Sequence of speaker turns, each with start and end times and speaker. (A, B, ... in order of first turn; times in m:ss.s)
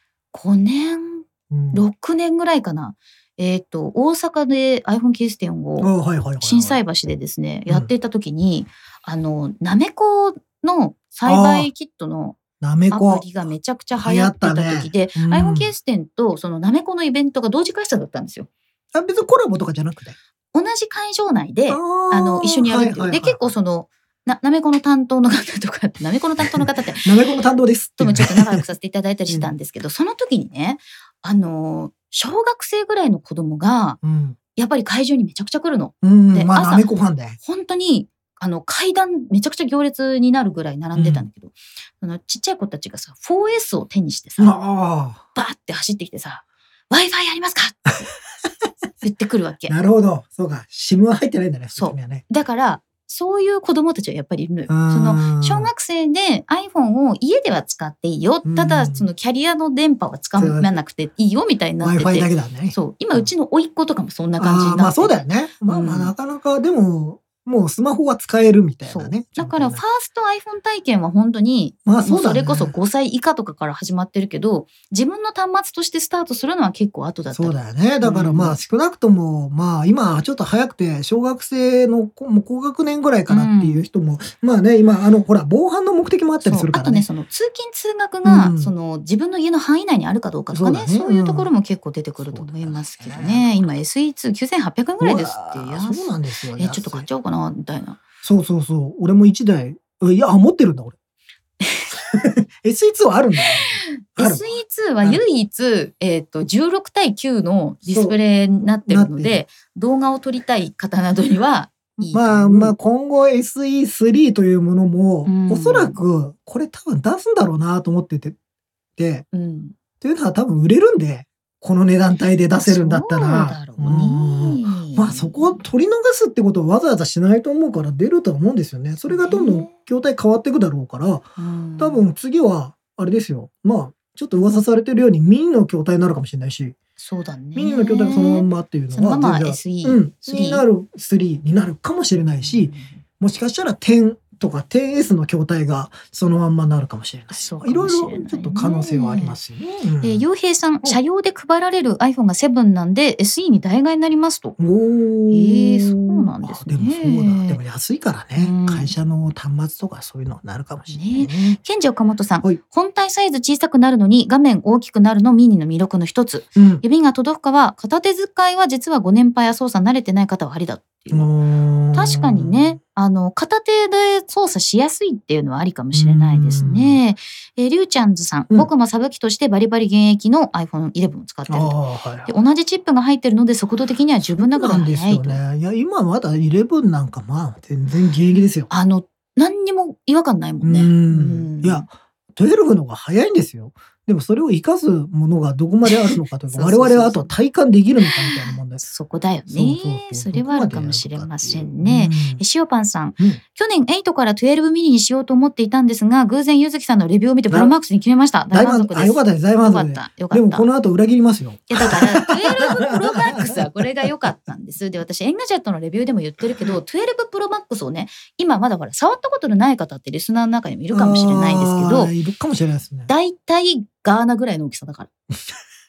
0:00.3-0:12.4 A
0:01.5-0:01.8 B
0:05.8-0:06.8 B
0:11.2-0:11.7 B
0:12.6-0:13.3 B
0:12.9-0:18.5 A
0:13.9-0:15.7 B
0:18.9-0:20.2 B
0:20.5-0:27.1 A
0:21.7-0:23.5 B
0:26.5-0:28.6 B
0:28.0-0:34.0 A
0:34.0-0:34.4 B
0:34.5-0:36.9 A
0:36.0-0:37.4 B
0:37.4-0:44.5 A
0:40.9-0:41.3 B
0:44.4-0:45.2 B
0:45.3-0:47.9 A
0:49.0-0:49.7 A
0:49.7-0:52.2 B
0:51.8-1:06.1 A
0:54.7-0:55.7 B
0:58.4-0:59.1 B
1:00.4-1:00.7 B
1:01.8-1:03.3 B
1:04.4-1:09.8 B
1:08.9-1:18.6 A
1:11.8-1:12.7 B
1:17.3-1:27.0 B
1:23.3-1:23.8 A
1:26.4-1:38.0 A
1:28.2-1:28.7 B
1:30.5-1:31.5 B
1:32.3-1:33.5 B
1:35.0-1:37.1 B
1:38.2-1:40.9 B
1:41.6-1:41.9 A
1:42.1-1:44.5 B
1:43.4-1:52.8 A
1:47.8-1:49.4 B
1:52.1-1:58.4 B
1:55.2-1:56.0 A
1:59.0-1:59.2 B
1:59.3-1:59.8 A
2:00.0-2:11.3 B
2:02.6-2:05.6 A
2:09.1-2:09.7 A
2:11.4-2:12.0 A
2:11.8-2:16.8 B
2:17.0-2:20.6 A
2:17.5-2:30.2 B
2:22.4-2:23.0 A
2:27.3-2:29.4 A
2:30.0-2:34.6 A
2:34.6-2:41.6 B
2:35.3-2:37.6 A
2:38.4-2:38.9 A
2:40.9-2:51.3 A
2:46.6-2:46.8 B
2:51.1-2:52.8 B
2:51.9-3:05.4 A
2:55.9-2:57.0 B
3:01.5-3:02.3 B
3:04.4-3:08.7 B
3:08.7-3:11.9 A
3:10.6-3:18.8 B
3:15.8-3:17.3 A
3:18.0-3:30.7 A
3:19.5-3:22.4 B
3:28.5-3:34.1 B
3:31.7-3:42.1 A
3:40.9-3:43.1 B
3:43.1-3:45.1 A